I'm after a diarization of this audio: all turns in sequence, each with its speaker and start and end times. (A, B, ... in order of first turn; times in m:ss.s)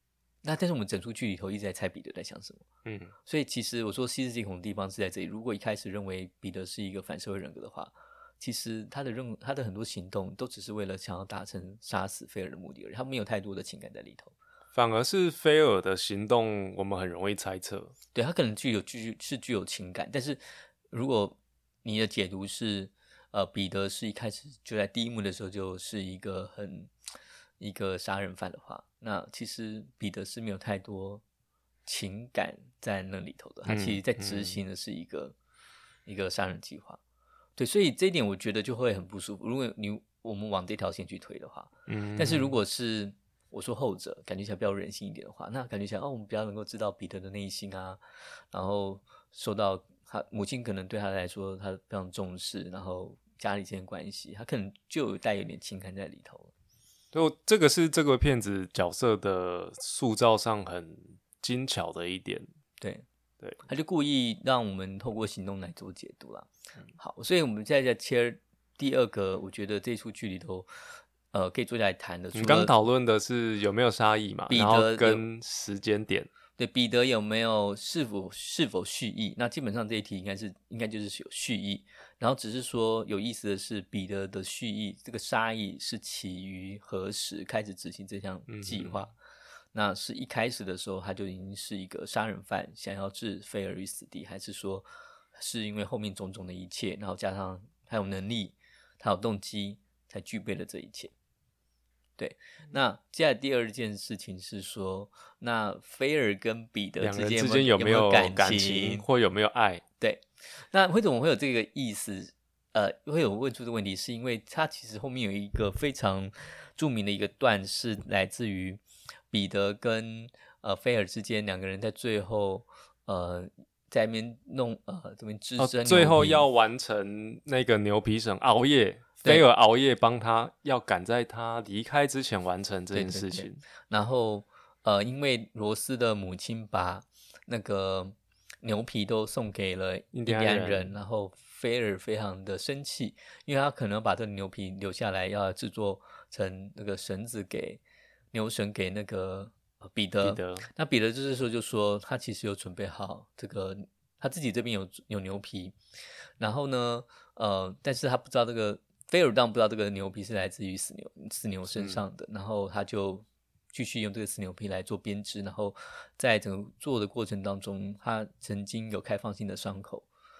0:00.4-0:02.6 A
0:02.8-0:03.1 B
0:03.2-0:14.3 A
0:14.7-0:17.9 B
0:18.1-0:26.9 A
0:27.6-0:31.2 A
0:31.8-0:35.4 A
0:33.7-0:34.6 B
0:36.0-0:37.0 A
0:37.6-0:48.0 A
0:41.9-0:42.5 B
0:48.5-0:56.5 A
0:57.1-1:02.4 B
1:02.8-1:03.0 A
1:03.6-1:10.7 A
1:11.3-1:12.7 A
1:12.3-1:16.3 B
1:14.5-1:15.2 A
1:16.6-1:29.1 A
1:28.5-1:29.1 B
1:29.7-1:41.1 A
1:42.2-1:49.0 A
1:47.0-1:49.8 B
1:50.0-2:06.5 A
2:05.6-2:13.6 B
2:12.9-2:27.8 A
2:20.1-2:20.9 B
2:28.3-2:35.8 A
2:30.2-2:30.7 B
2:36.4-2:50.1 A
2:41.7-2:42.0 B